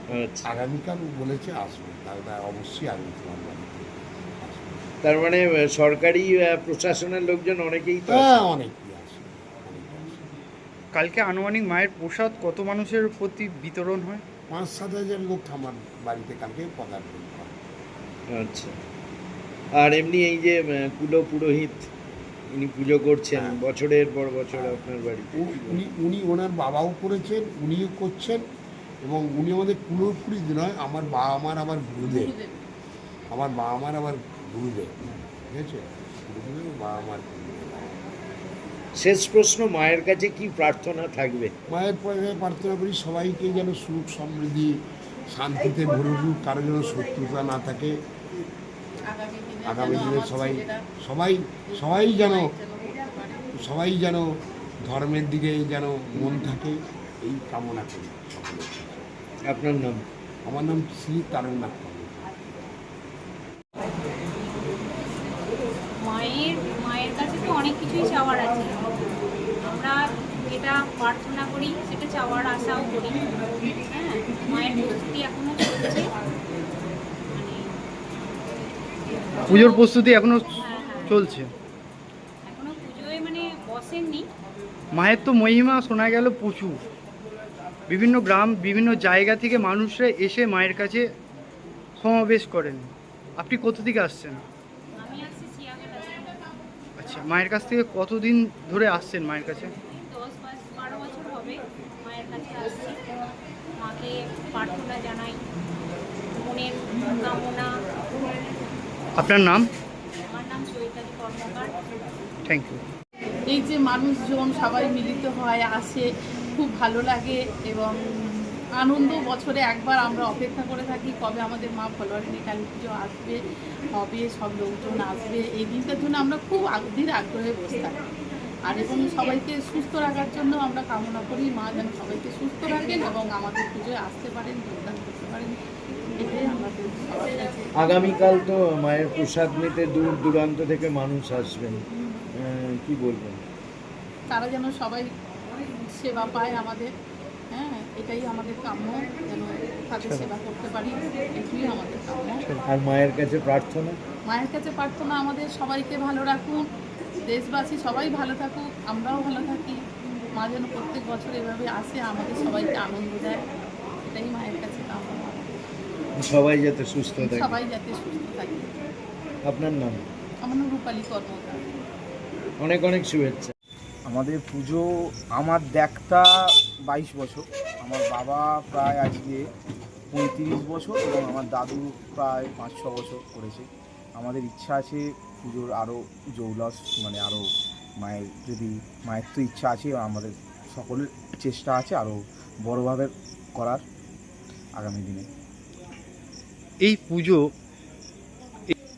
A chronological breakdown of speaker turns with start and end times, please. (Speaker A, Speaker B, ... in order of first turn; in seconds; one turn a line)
Speaker A: 0.1-0.5
Speaker B: 0.4-4.9
Speaker A: 5.0-8.4
Speaker B: 8.1-10.2
Speaker C: 10.9-14.2
Speaker B: 14.5-17.5
Speaker A: 18.3-18.8
Speaker A: 19.8-21.9
Speaker A: 22.5-25.8
Speaker B: 24.5-24.8
Speaker B: 25.3-28.4
Speaker B: 29.0-32.3
Speaker D: 32.0-32.6
Speaker B: 33.3-37.7
Speaker A: 39.0-41.5
Speaker B: 41.7-44.7
Speaker B: 45.3-47.9
Speaker D: 49.1-50.8
Speaker B: 49.7-52.5
Speaker D: 51.7-53.6
Speaker B: 53.5-54.2
Speaker B: 54.8-59.1
Speaker A: 59.5-60.0
Speaker B: 60.4-62.5
Speaker E: 66.0-68.9
Speaker E: 69.6-76.1
Speaker E: 77.3-77.6
Speaker E: 79.4-79.9
Speaker C: 79.5-81.5
Speaker E: 80.7-81.1
Speaker E: 82.5-84.3
Speaker C: 84.9-86.8
Speaker C: 87.9-91.1
Speaker C: 92.0-94.4
Speaker E: 95.0-96.4
Speaker C: 97.0-99.7
Speaker E: 99.5-103.2
Speaker E: 103.8-105.4
Speaker E: 106.3-107.7
Speaker C: 109.2-109.7
Speaker E: 110.3-111.7
Speaker C: 112.5-112.8
Speaker D: 113.5-116.0
Speaker D: 116.6-123.4
Speaker D: 123.9-128.1
Speaker D: 128.7-135.6
Speaker D: 136.2-137.7
Speaker A: 137.8-141.8
Speaker A: 142.4-143.4
Speaker D: 144.3-145.1
Speaker D: 145.8-146.9
Speaker D: 147.5-152.4
Speaker C: 150.0-150.3
Speaker A: 152.7-154.0
Speaker D: 154.3-156.6
Speaker D: 157.2-159.8
Speaker D: 160.3-163.4
Speaker D: 164.0-165.5
Speaker A: 166.2-167.6
Speaker D: 167.2-168.7
Speaker A: 169.4-170.0
Speaker D: 170.4-171.7
Speaker A: 172.6-173.5
Speaker F: 174.1-176.3
Speaker F: 176.9-179.4
Speaker F: 180.1-187.5
Speaker F: 188.0-193.8
Speaker F: 194.8-195.3
Speaker C: 196.8-197.5